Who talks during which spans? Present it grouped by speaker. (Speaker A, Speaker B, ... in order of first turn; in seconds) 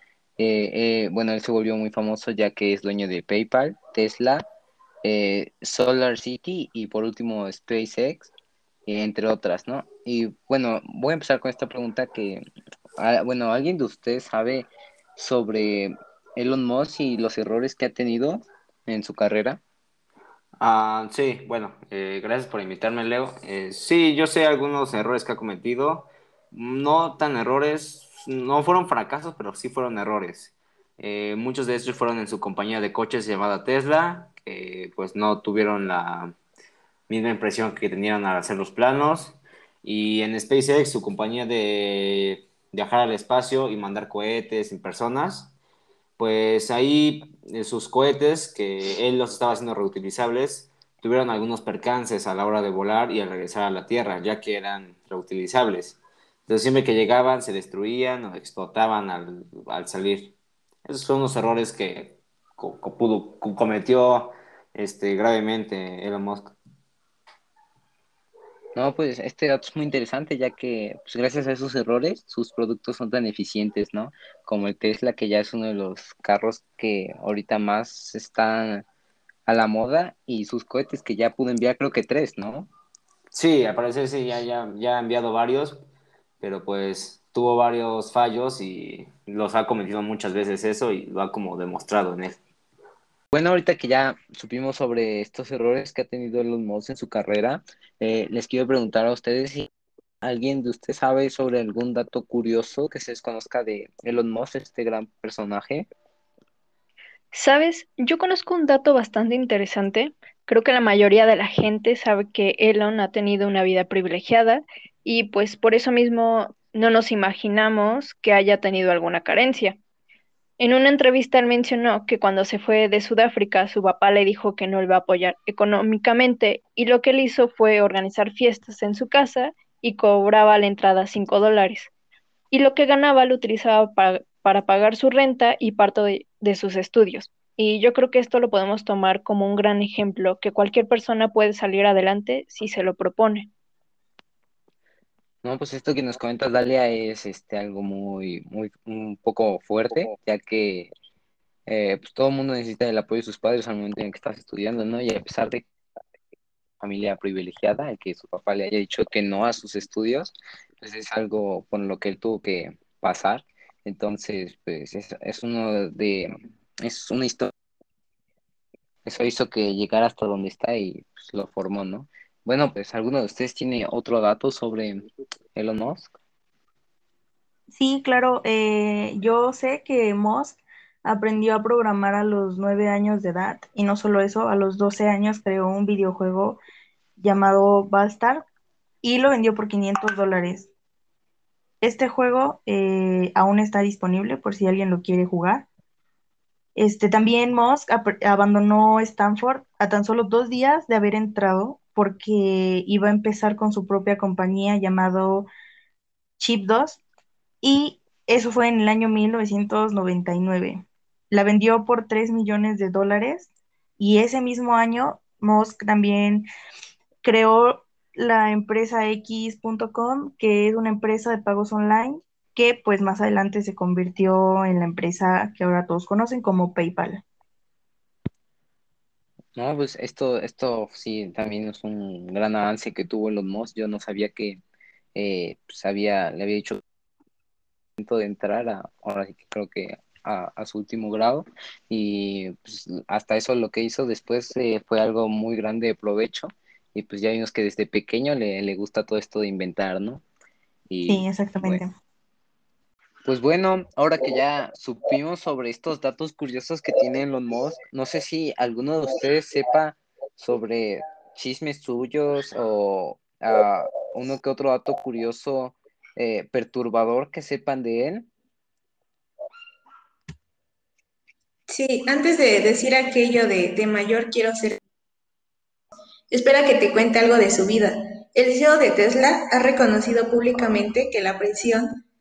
Speaker A: 0.4-4.4, 5.0-8.3, 8.8-12.4, 13.0-19.6, 68.7-78.8, 79.5-82.7, 93.3-99.7, 100.2-105.9, 145.4-150.9, 151.7-155.7, 156.8-167.5, 169.0-176.1, 229.6-234.6, 235.1-236.8, 238.0-250.2, 250.9-251.8, 253.2-268.3
Speaker B: 20.6-36.3, 37.1-45.5, 46.2-60.3, 60.8-66.5, 83.3-85.8, 86.4-92.4
Speaker C: 107.3-119.8, 120.6-131.9, 132.5-143.5
Speaker D: 177.7-186.6, 187.2-188.4, 189.0-190.7, 191.8-195.7, 196.8-205.5, 206.4-207.0, 207.6-216.5, 217.2-227.2, 251.1-251.9
Speaker E: 271.7-274.8, 276.3-281.9